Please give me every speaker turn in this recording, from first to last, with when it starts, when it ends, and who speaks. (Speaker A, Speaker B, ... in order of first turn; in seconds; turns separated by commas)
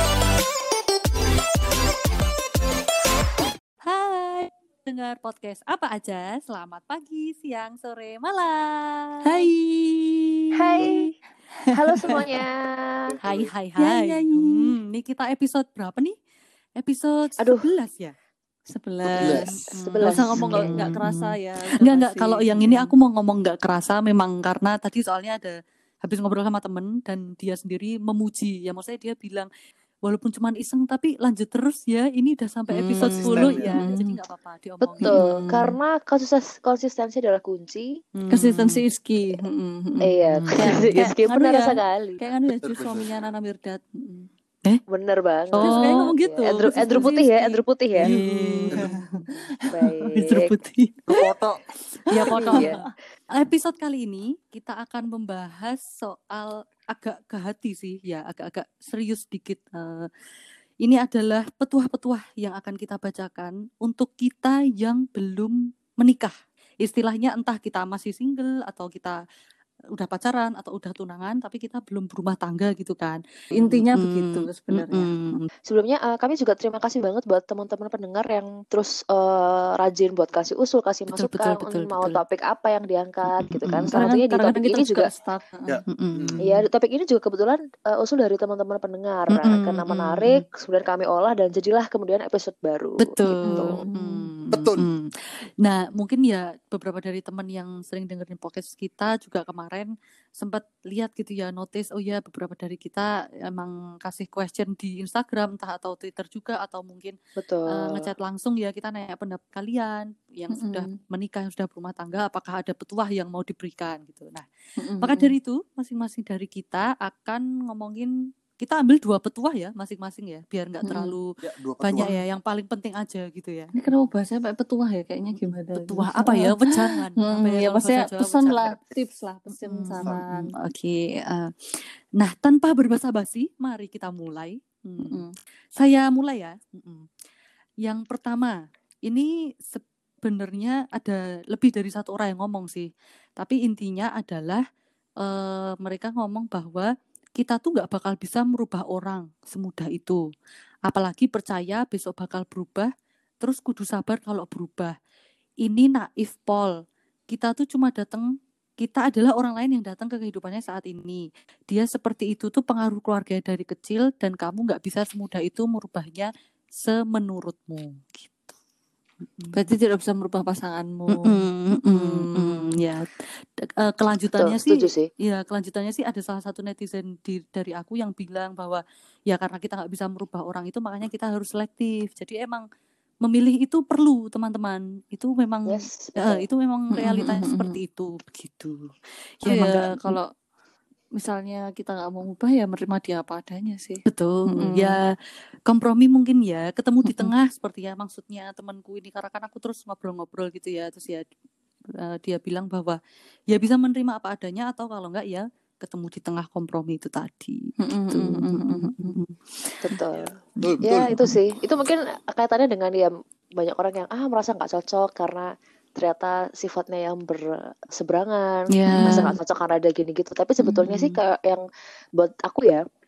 Speaker A: 3.8-9.5, Speaker B: 9.2-11.1, Speaker C: 10.6-11.1, Speaker B: 11.6-12.4, Speaker C: 11.7-13.1, Speaker D: 13.0-13.5, Speaker A: 13.2-16.1, Speaker B: 13.8-14.7, Speaker A: 16.8-18.1, Speaker C: 17.4-17.7, Speaker B: 18.7-22.9, Speaker D: 19.2-19.7, Speaker A: 19.7-29.5, Speaker C: 19.8-20.9, Speaker A: 30.0-35.2, Speaker B: 32.8-34.2, Speaker D: 33.0-33.8, Speaker C: 34.8-38.0, Speaker B: 35.0-35.8, Speaker A: 38.2-38.8, Speaker B: 38.3-44.3, Speaker C: 40.0-42.2, Speaker A: 40.3-41.1, Speaker D: 42.5-43.2, Speaker C: 44.9-48.1, Speaker A: 45.6-46.1, Speaker B: 45.6-51.1, Speaker A: 48.0-48.9, Speaker C: 49.7-50.5, Speaker D: 51.1-51.6, Speaker A: 52.1-60.1, Speaker B: 52.2-52.9, Speaker C: 52.3-52.8, Speaker A: 60.8-69.2, Speaker A: 70.0-75.5, Speaker B: 73.5-75.1, Speaker C: 75.7-85.1, Speaker A: 81.1-82.2, Speaker A: 83.2-84.0, Speaker B: 83.9-85.8, Speaker D: 85.7-86.4, Speaker A: 85.9-86.6, Speaker C: 86.4-93.8, Speaker A: 89.3-90.4, Speaker A: 93.0-107.2, Speaker B: 93.4-94.3, Speaker D: 94.5-94.8, Speaker C: 107.4-108.1, Speaker A: 107.7-114.5, Speaker B: 110.5-110.9, Speaker B: 114.8-115.3, Speaker A: 115.0-123.9, Speaker B: 120.8-121.1, Speaker D: 121.4-122.1, Speaker B: 123.8-130.5, Speaker A: 125.3-128.8, Speaker A: 129.5-135.2, Speaker B: 135.0-135.3, Speaker A: 135.8-137.1, Speaker A: 137.8-144.6, Speaker A: 145.2-150.2, Speaker A: 150.9-152.9, Speaker A: 153.4-154.9, Speaker A: 155.6-156.8, Speaker A: 157.3-158.3, Speaker A: 158.8-168.5, Speaker A: 169.2-169.6, Speaker B: 169.5-172.7, Speaker A: 171.1-182.7, Speaker C: 174.4-175.1, Speaker A: 183.2-190.2, Speaker C: 185.7-186.4, Speaker B: 186.9-187.8, Speaker B: 189.5-190.3, Speaker B: 191.2-195.0, Speaker A: 194.1-195.2, Speaker A: 195.7-201.2, Speaker B: 197.1-197.3, Speaker A: 202.0-203.0, Speaker A: 203.5-210.0, Speaker B: 207.8-209.2, Speaker C: 209.8-221.6, Speaker D: 210.1-211.3, Speaker A: 210.6-211.4, Speaker A: 218.7-219.3, Speaker B: 218.9-219.3, Speaker A: 220.6-221.2, Speaker C: 222.2-222.8